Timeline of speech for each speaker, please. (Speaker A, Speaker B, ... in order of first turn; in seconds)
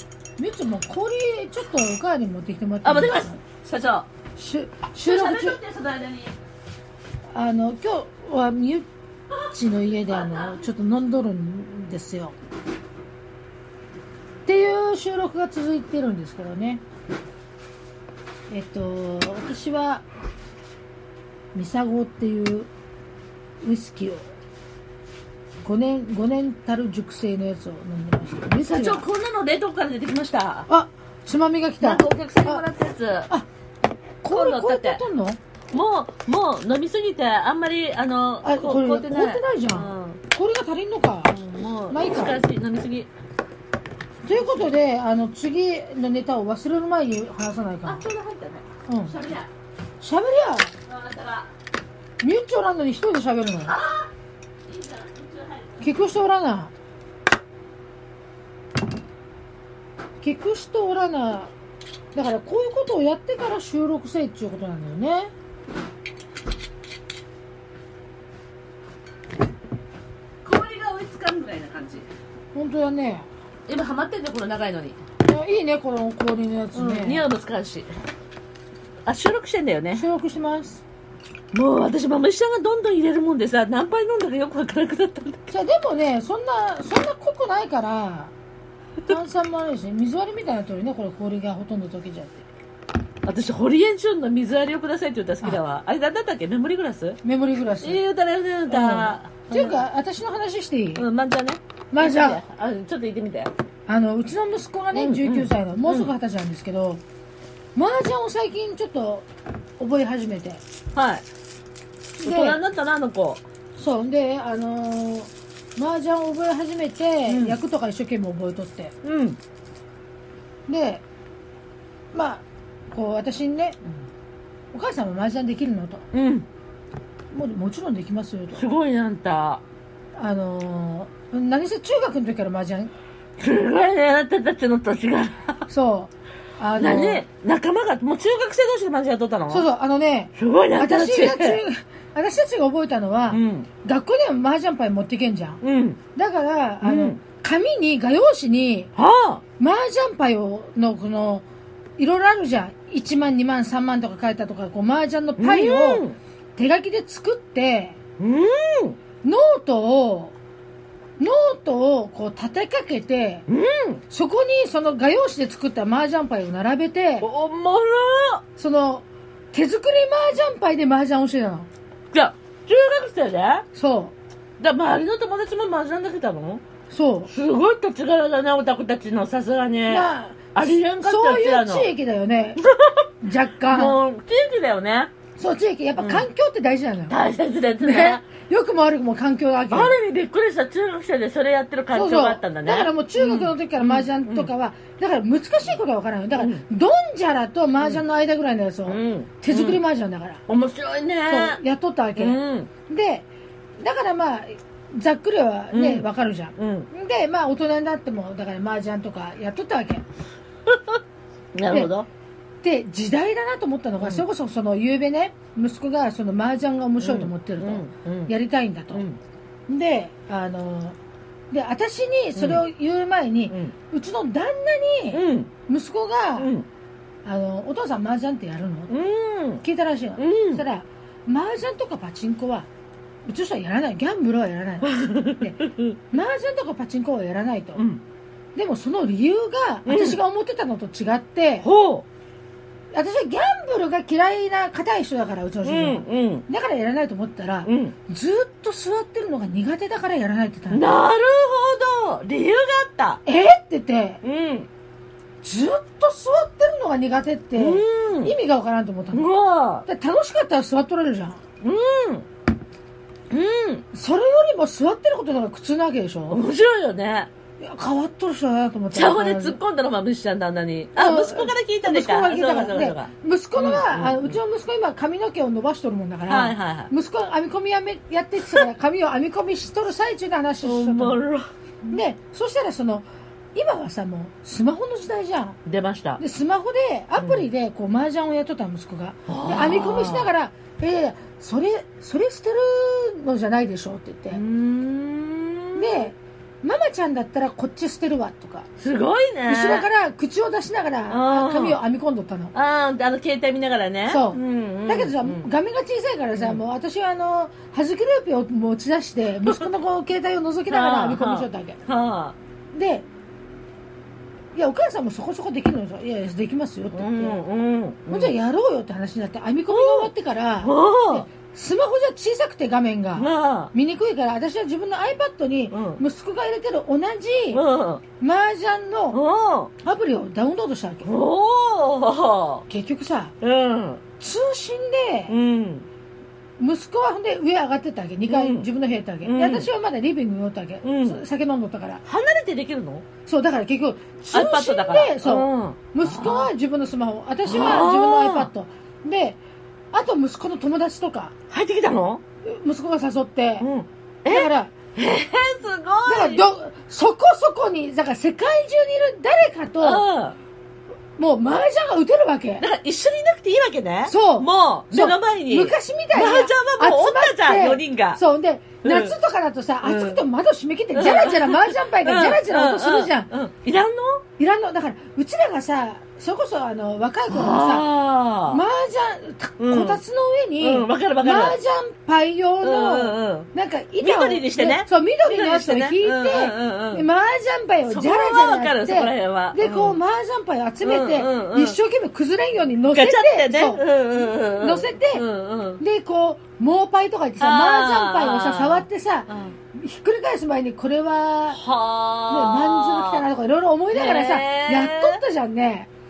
Speaker A: 0.4-3.4, 4.4-5.6, 7.3-8.9, 9.5-12.3, 14.5-16.8, 18.5-20.0, 21.5-22.7, 23.6-24.2, 25.6-29.0, 30.7-32.6, 34.2-35.4, 38.4-41.3, 41.9-42.4, 44.2-48.0, 48.9-49.1, 50.0-50.7, 52.2-53.8, 55.8-56.7, 60.2-61.5, 62.1-65.3, 72.5-73.3, 75.2-77.3, 79.9-80.8, 85.5-88.3, 89.1-92.5, 97.2-98.0, 98.7-101.0, 101.9-102.4, 103.9-107.0, 107.8-109.3, 109.8-110.6, 112.2-112.6, 113.8-119.0, 120.7-121.0, 122.1-123.8, 124.7-126.1, 127.3-128.6, 130.2-132.9, 135.7-137.2, 139.5-145.6, 146.2-148.9, 149.6-151.4, 152.0-156.1, 156.6-158.0, 159.2-160.3, 161.2-163.5, 164.1-167.3, 168.6-171.7, 173.8-174.2, 176.9-177.3, 179.9-182.6, 183.2-184.0, 185.4-187.2, 187.8-190.0, 191.9-200.4, 201.3-203.3, 203.8-210.0, 211.7-211.9, 212.6-219.1, 219.7-221.0, 221.5-226.5, 227.2-228.9, 229.6-232.7, 233.3-237.8, 238.6-241.7, 242.9-250.8, 253.3-254.2, 255.4-259.3, 259.9-261.4, 263.9-266.4, 267.6-269.6, 271.0-281.2, 281.9-285.6, 286.2-294.4, 295.8-298.7, 299.5-302.5, 304.1-311.8, 312.7-313.1, 314.5-317.4, 318.1-327.6, 328.2-329.2, 329.8-331.1, 332.7-333.3, 334.2-335.3, 336.6-342.0, 343.3-349.4, 349.9-351.3, 352.4-353.7, 354.3-354.7, 356.1-360.1, 361.2-362.6, 364.1-373.3, 374.4-377.9, 378.5-395.2, 395.8-401.6, 402.3-405.9
Speaker B: 2.8-4.1, 5.0-6.3, 10.0-10.7, 28.6-30.7, 31.8-33.3, 34.3-35.0, 35.7-40.2, 41.3-43.1, 47.9-49.5, 50.9-51.5, 53.7-54.0, 54.7-56.0, 70.5-72.1, 73.7-75.0, 76.7-77.9, 79.1-80.0, 81.5-85.5, 93.2-97.2, 97.8-99.8, 101.0-103.5, 104.9-106.1, 111.0-111.2, 112.2-113.4, 117.3-117.6, 119.0-119.4, 126.1-126.5, 128.5-129.6, 133.4-135.7, 136.8-139.7, 140.4-141.6, 143.3-143.7, 145.6-146.0, 146.8-147.2, 149.0-149.4, 155.4-156.2, 158.2-159.0, 163.5-164.0, 167.2-168.4, 172.1-173.7, 174.6-176.6, 177.3-181.9, 182.6-183.1, 183.7-185.1, 186.0-186.3, 187.1-188.2, 189.7-194.5, 196.3-196.6, 197.8-198.0, 198.9-199.8, 200.5-201.6, 202.2-202.7, 205.7-206.9, 210.7-211.0, 211.6-212.1, 214.0-214.2, 217.0-218.3, 218.9-219.2, 222.4-222.6, 223.5-223.7, 225.1-225.5, 226.4-226.7, 228.9-229.6, 230.2-230.6, 234.8-236.0, 237.8-238.0, 239.9-240.2, 241.6-242.1, 245.6-246.5, 247.7-247.9, 250.7-253.2, 254.2-254.7, 257.6-258.3, 259.1-259.9, 261.6-262.3, 263.3-263.9, 266.3-267.3, 268.9-274.4, 276.3-276.9, 280.6-281.5, 285.6-286.2, 287.2-287.5, 289.3-290.3, 294.3-296.1, 298.8-299.9, 301.1-301.8, 302.5-305.5, 310.7-312.4, 316.9-318.4, 319.7-321.3, 323.2-323.7, 325.7-326.0, 327.5-328.0, 329.1-329.7, 331.1-332.6, 333.4-334.0, 335.3-335.9, 338.3-338.7, 339.2-339.7, 340.8-341.2, 342.1-343.1, 344.3-346.5, 347.4-348.5, 351.5-352.2, 353.6-356.4, 359.8-360.4, 362.6-368.2, 368.8-369.1, 369.8-370.2, 370.9-374.2, 377.3-378.6, 379.6-380.0, 380.6-381.6, 382.6-387.1, 387.9-390.0, 390.8-391.8, 392.9-395.8, 397.4-399.6, 401.5-403.3, 403.9-405.2